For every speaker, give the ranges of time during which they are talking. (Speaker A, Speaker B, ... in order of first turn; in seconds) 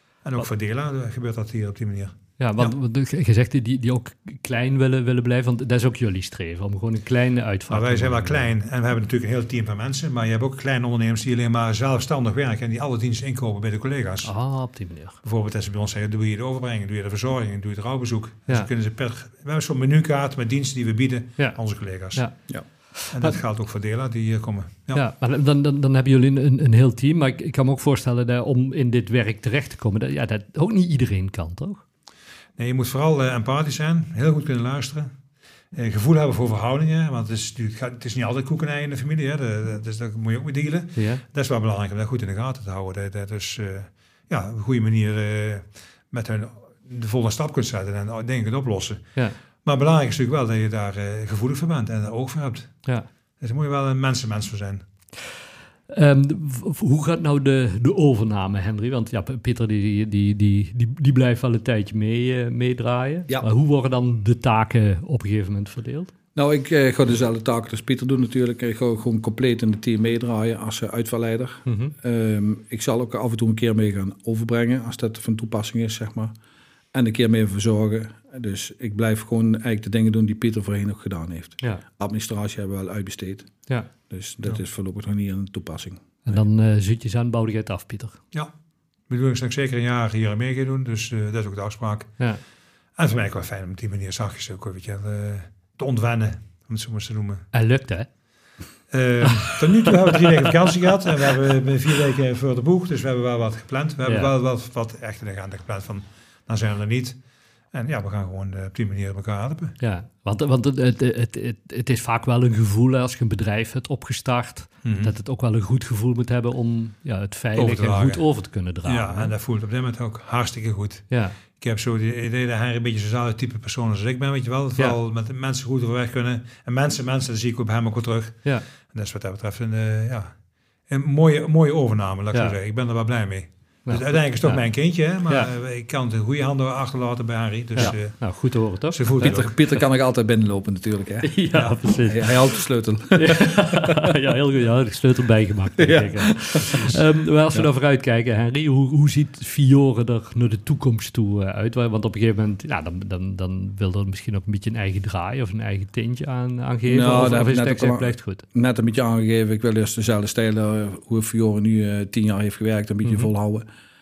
Speaker A: 0.2-2.8, 7.7-14.3, 15.2-22.2, 23.1-25.0, 32.6-35.1, 35.7-49.0, 49.6-52.7, 53.4-54.8, 89.1-92.1, 93.0-97.5, 98.9-107.2, 107.7-109.8, 114.8-115.1, 117.6-118.2, 118.8-121.1, 121.6-128.4, 128.9-130.3, 130.9-138.2, 138.9-139.6
Speaker B: 2.4-8.5, 14.2-15.2, 23.0-23.4, 24.9-31.8, 41.0-41.2, 55.9-66.1, 71.7-71.9, 86.3-88.2, 97.5-98.1, 104.0-104.3, 109.8-119.3, 121.1-121.4, 133.9-134.7, 135.2-135.5, 137.8-139.1, 141.2-158.4, 163.1-163.3
Speaker C: 66.3-76.3, 76.9-83.5, 84.1-86.4, 139.2-141.3, 142.1-144.1, 145.8-147.0, 156.9-163.7